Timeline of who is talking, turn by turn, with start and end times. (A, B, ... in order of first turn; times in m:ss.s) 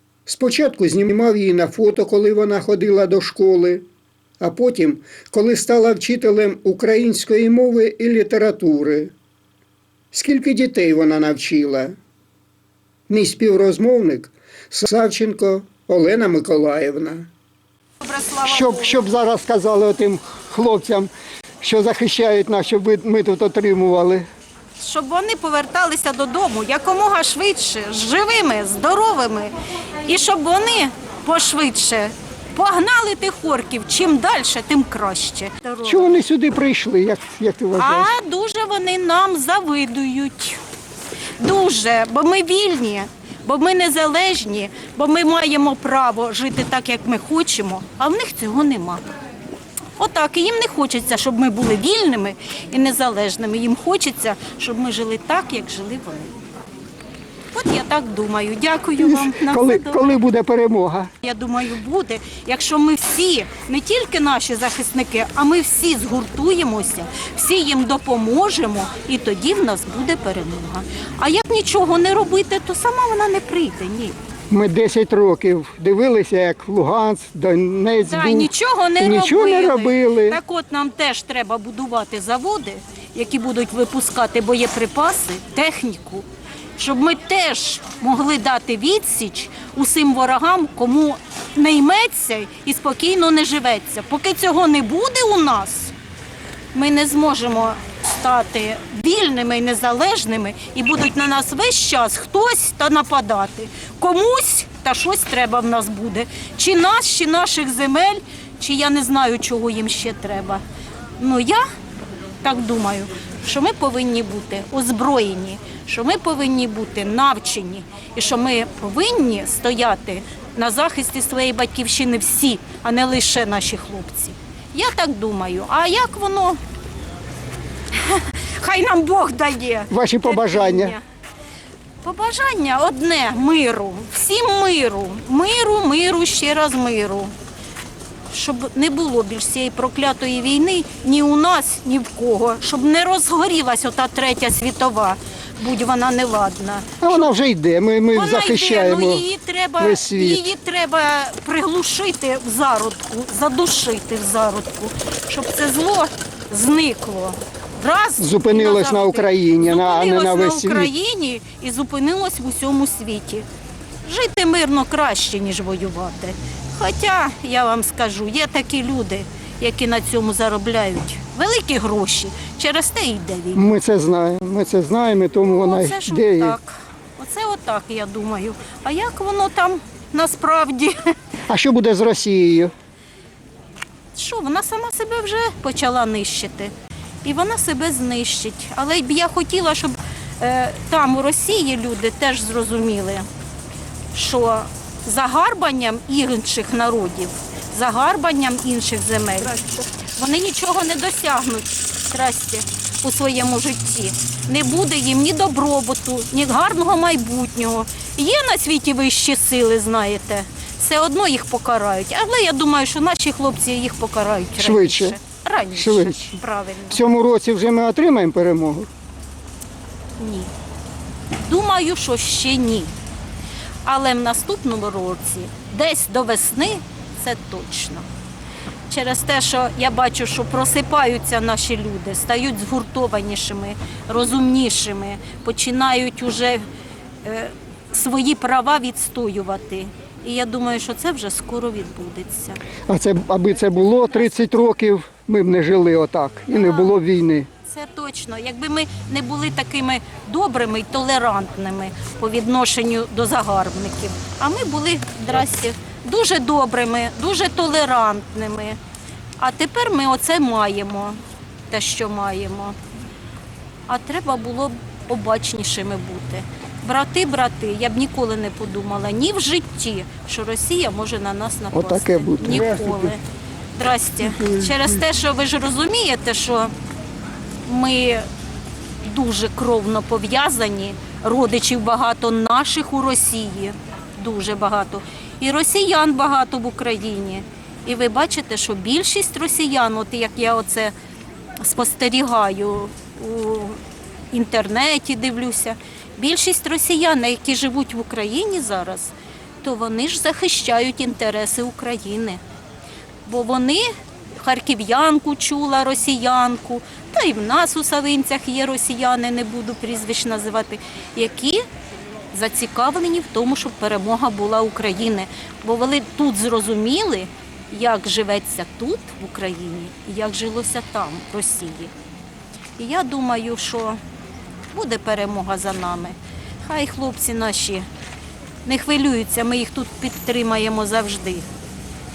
0:00.2-0:03.8 A
0:04.4-0:09.1 A
0:10.1-0:11.9 A
0:13.1-0:17.3 A
0:18.0-0:19.0 B
0:18.4-0:24.2 A
0:24.8-0:29.5 B
0:30.0-0:36.2 B
0:35.8-0:38.1 A
0:37.7-0:40.6 B
0:41.4-0:49.0 B
0:50.0-0:56.3 B
0:57.5-1:00.2 B
0:59.0-1:01.1 A
1:01.2-1:14.2 B
1:14.5-1:20.4 A
1:18.0-1:26.2 B
1:26.8-1:35.9 B
1:36.7-1:50.6 B
1:51.2-1:51.6 B
1:52.4-2:06.6 B
2:07.9-2:11.0 B
2:09.9-2:11.0 A
2:12.0-2:17.3 B
2:18.3-2:27.3 B
2:27.0-2:29.2 A
2:28.1-2:43.4 B
2:29.8-2:30.5 A
2:38.2-2:40.9 A
2:44.0-2:53.6 B
2:53.5-2:56.6 A
2:55.4-3:01.0 B
3:01.5-3:02.7 A
3:04.1-3:06.7 B
3:07.2-3:13.3 B
3:14.1-3:37.0 B
3:34.6-3:35.2 A
3:35.7-3:38.9 A
3:40.2-3:40.5 B
3:41.4-3:42.9 B
3:43.8-3:48.0 B
3:48.9-3:56.6 B
3:57.2-4:02.6 B
4:02.9-4:07.5 A
4:03.9-4:04.6 B
4:06.5-4:06.9 B
4:07.7-4:18.8 B
4:19.4-4:21.2 B
4:21.7-4:22.8 B
4:23.9-4:33.2 B
4:31.7-4:33.1 A
4:33.7-4:36.7 B
4:34.2-4:35.0 A
4:37.6-4:38.2 B
4:39.0-4:50.9 B
4:51.6-4:53.8 B
4:54.3-5:02.4 B
5:03.2-5:03.9 B
5:04.4-5:11.6 B
5:12.3-5:21.9 B
5:22.8-5:24.0 B
5:24.7-5:27.8 B
5:28.6-5:31.4 B